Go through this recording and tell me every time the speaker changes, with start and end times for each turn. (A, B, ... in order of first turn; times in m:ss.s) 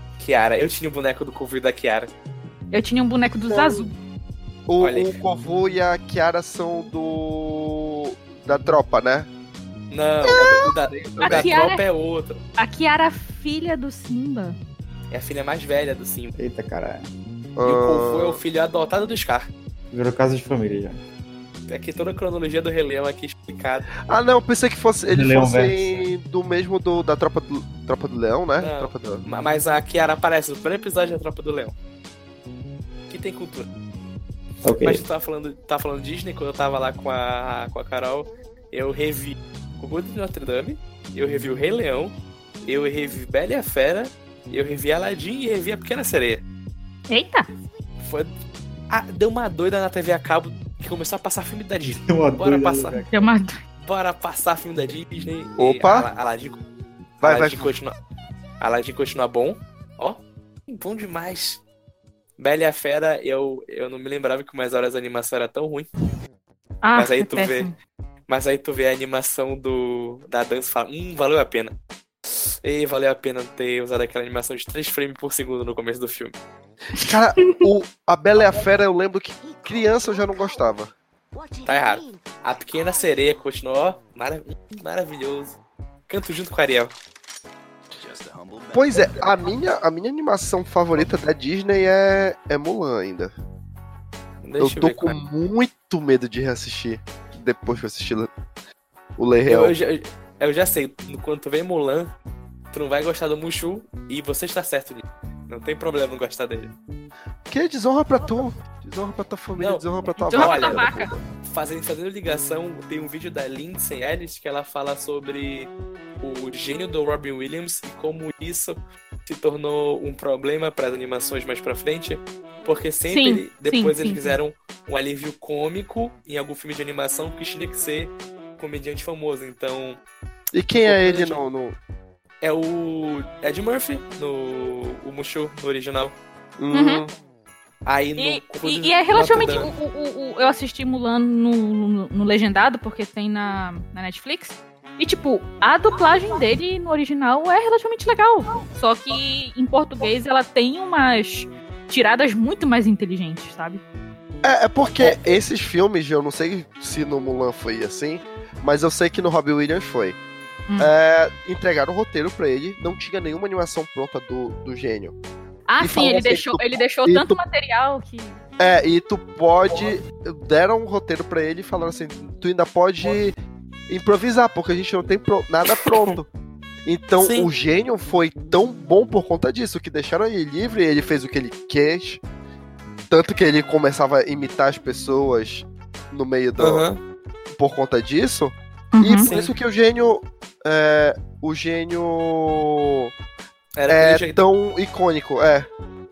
0:00.2-0:02.1 A
0:02.7-0:03.9 B
0:03.2-0:03.9 C
0:04.7-0:09.3 C
0:04.8-0:05.2 A
0:09.9-0:12.4 A
0:10.2-0:11.5 C
0:11.2-0:11.8 B
0:12.6-0:14.6 B
0:15.1-0:16.3 A
0:16.4-0:17.1 D
0:17.6-0:18.4 C
0:17.6-0:19.5 A
0:19.9-0:21.0 D
0:21.7-0:23.9 A
0:24.1-0:29.2 C
0:25.1-0:26.1 D
0:28.6-0:31.7 A
0:33.1-0:33.7 A
0:34.6-0:35.0 D
0:34.8-0:42.1 A
0:42.7-0:46.4 A
0:47.1-0:47.5 B
0:48.0-0:48.3 A
0:48.9-0:53.0 A
0:51.9-0:53.1 D
0:53.1-0:53.6 B
0:53.8-0:56.6 A
0:55.6-0:56.1 C
0:57.2-0:57.9 A
0:57.2-0:57.7 C
0:58.6-1:01.6 A
1:02.4-1:05.9 A
1:06.8-1:07.8 B
1:07.0-1:07.7 A
1:08.3-1:11.8 A
1:12.4-1:16.4 A
1:17.0-1:20.9 C
1:17.0-1:17.6 B
1:21.6-1:26.9 A
1:28.7-1:33.3 C
1:34.4-1:35.2 A
1:34.6-1:38.3 C
1:39.2-1:39.7 C
1:39.5-1:42.1 A
1:42.7-1:46.7 A
1:47.5-1:51.1 C
1:49.6-1:50.9 A
1:50.2-1:51.1 B
1:51.4-2:10.0 A
2:03.1-2:04.4 B
2:10.5-2:11.8 C
2:10.8-2:11.5 A
2:12.4-2:16.2 A
2:16.6-2:17.2 C
2:16.7-2:17.0 B
2:17.9-2:19.7 A
2:18.2-2:33.8 B
2:34.4-2:40.2 C
2:40.7-2:40.9 B
2:40.8-2:45.2 C
2:45.7-2:48.4 B
2:45.8-2:47.4 C
2:48.6-2:53.4 C
2:53.9-2:56.3 C
2:55.7-2:56.0 A
2:56.8-3:02.2 C
2:57.2-2:57.5 A
3:03.1-3:06.9 C
3:06.6-3:07.0 A
3:07.5-3:13.1 C
3:08.9-3:09.3 B
3:09.2-3:09.5 A
3:13.8-3:14.4 A
3:13.9-3:15.7 C